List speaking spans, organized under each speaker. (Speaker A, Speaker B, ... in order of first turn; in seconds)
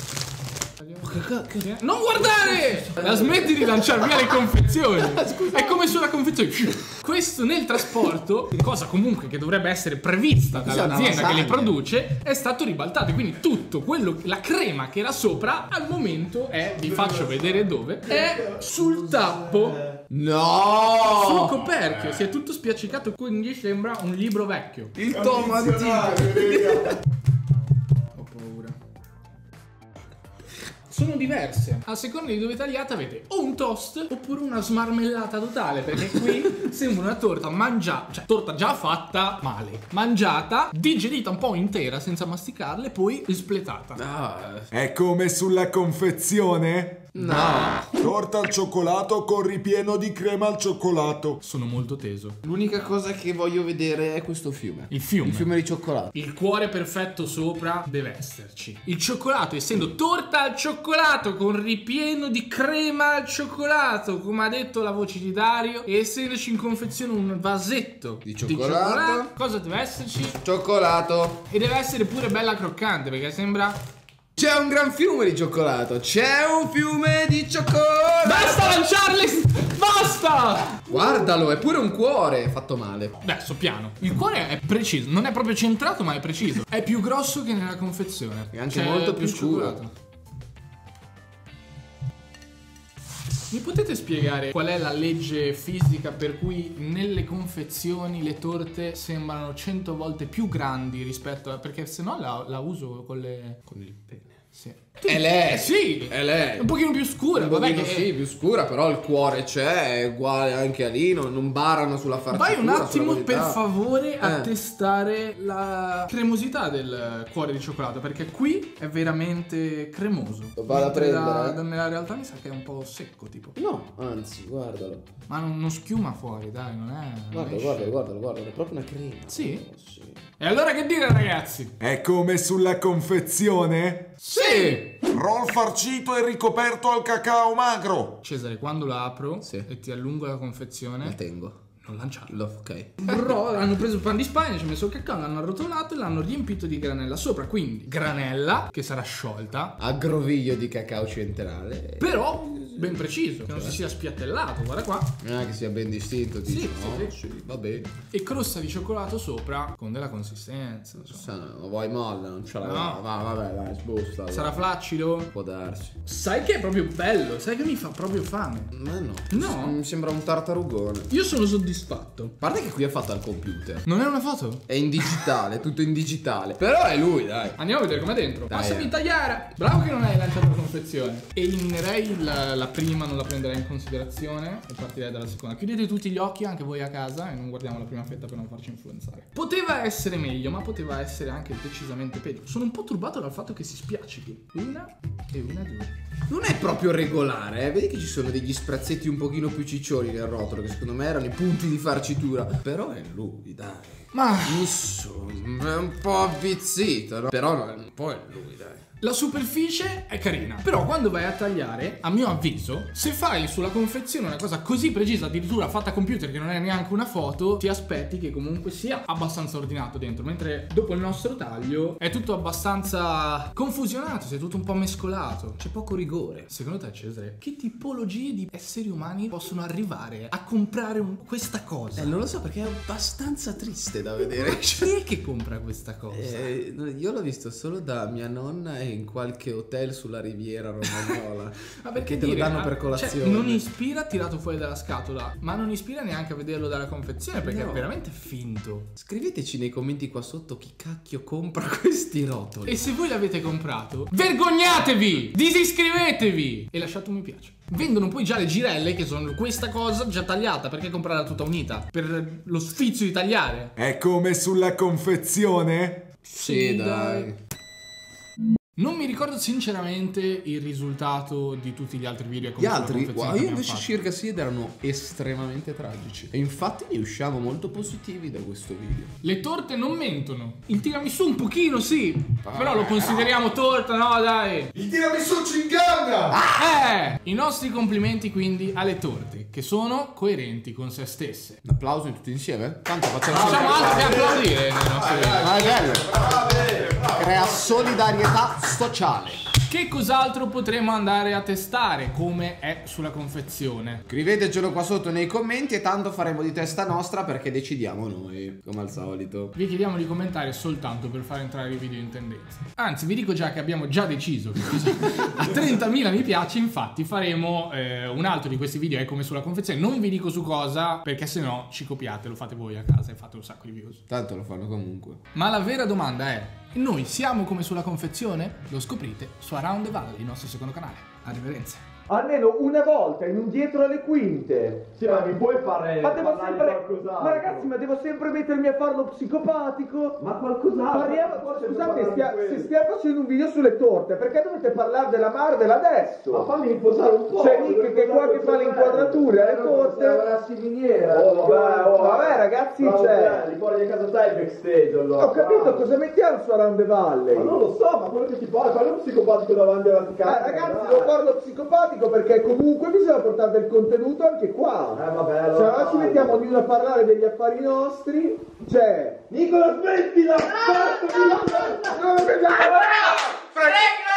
Speaker A: 0.8-20.0, 21.1-24.9, 28.1-28.8, 30.9-44.0, 47.2-47.8, 51.4-52.4, 54.9-55.5, 56.1-70.4, 71.5-73.8, 78.2-80.9, 83.2-89.9, 93.5-103.6, 104.5-108.1, 112.3-123.5, 125.3-127.9, 129.3-129.6, 130.4-131.7, 134.2-135.0, 138.2-141.2, 141.8-142.4, 143.0-149.7, 152.0-155.1, 156.4-157.1, 158.1-161.2, 162.6-163.0, 164.3-165.3, 166.0-168.7, 169.3-169.8, 171.1-172.3, 173.8-174.6, 177.6-195.9, 204.1-204.7, 209.0-225.6, 226.5-232.1, 234.2-236.5, 241.8-248.9, 252.7-263.7, 266.2-267.3, 268.8-273.9, 279.2-284.7, 286.6-291.6, 293.3-295.6, 299.7-304.0, 309.5-324.0, 325.3-331.8, 373.6-374.0
Speaker B: 1.0-4.3, 5.0-5.9, 10.5-11.8, 20.1-21.8, 24.9-27.0, 44.0-44.7, 47.1-47.9, 52.4-56.1, 68.2-69.3, 70.4-71.4, 74.4-78.8, 80.8-83.2, 88.5-89.8, 103.7-104.4, 105.0-106.7, 107.3-113.6, 114.2-114.5, 120.5-121.6, 123.5-125.0, 127.3-130.2, 134.4-134.8, 141.0-141.6, 142.2-143.3, 149.8-153.8, 155.2-157.9, 161.0-164.6, 165.3-165.9, 168.7-171.1, 172.4-173.8, 174.7-177.6, 178.5-178.9, 196.3-208.8, 225.6-226.5, 231.9-234.9, 236.1-243.6, 247.4-247.9, 248.9-252.8, 266.3-267.4, 272.6-279.1, 282.4-283.5, 286.3-286.8, 291.6-294.3, 295.4-299.4, 304.1-309.5, 324.1-325.2
Speaker C: 25.2-26.6, 44.7-47.3, 47.8-51.4, 131.8-134.4, 135.0-138.2, 263.8-266.1, 284.7-286.4, 293.4-294.4, 294.9-297.4
Speaker D: 296.1-297.0, 334.9-337.7, 340.2-342.7, 346.3-355.9, 357.3-361.1, 364.9-366.4, 369.3-373.5
Speaker E: 332.1-335.4, 336.0-340.2, 340.9-346.5, 347.3-350.3, 351.2-353.5, 355.2-357.6, 360.2-369.3, 370.8-373.1